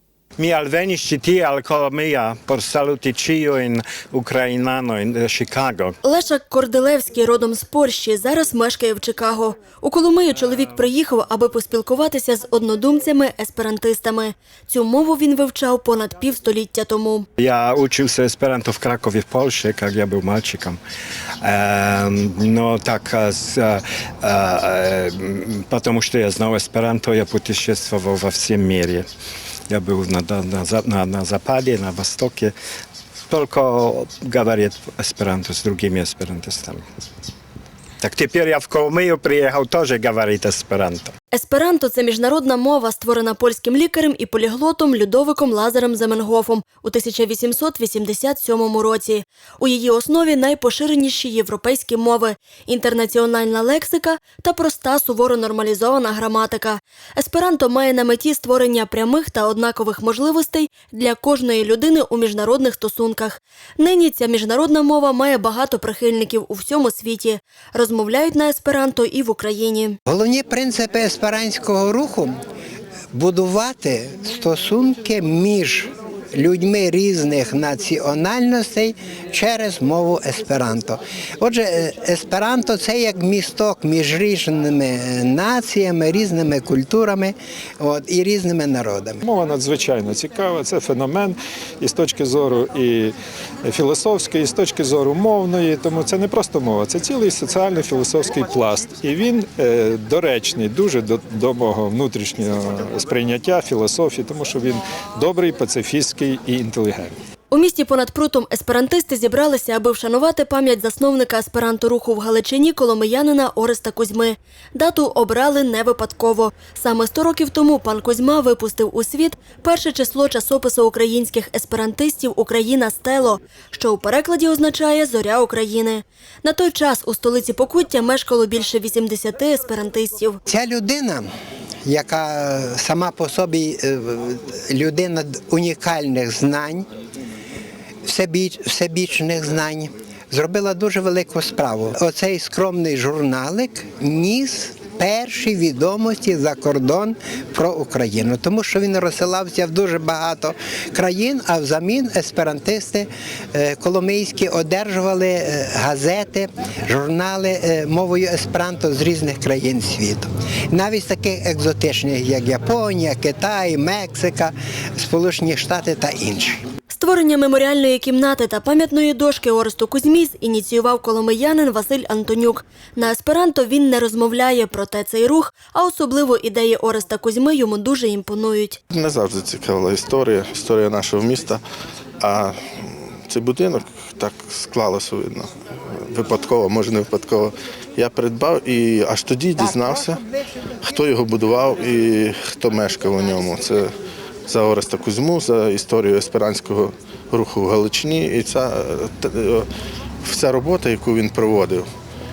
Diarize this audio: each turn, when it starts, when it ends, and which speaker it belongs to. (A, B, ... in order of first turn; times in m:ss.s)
0:00.4-0:06.0 A
0:06.0-0:17.3 B
0:17.4-0:20.8 A
0:21.4-0:29.1 A
0:29.7-0:32.5 A
0:33.3-0:36.8 A
0:38.0-0:41.1 A
0:41.3-1:10.0 B
1:10.1-1:12.3 C
1:13.1-1:29.2 C
1:29.2-1:47.2 D
1:47.5-2:10.4 B
2:10.5-2:11.3 C
2:11.9-2:16.8 C
2:18.1-2:46.6 C
2:46.9-2:58.8 B
2:58.9-3:01.6 E
3:02.2-3:10.2 E
3:10.8-3:13.9 E
3:14.5-3:19.7 E
3:20.2-3:21.9 E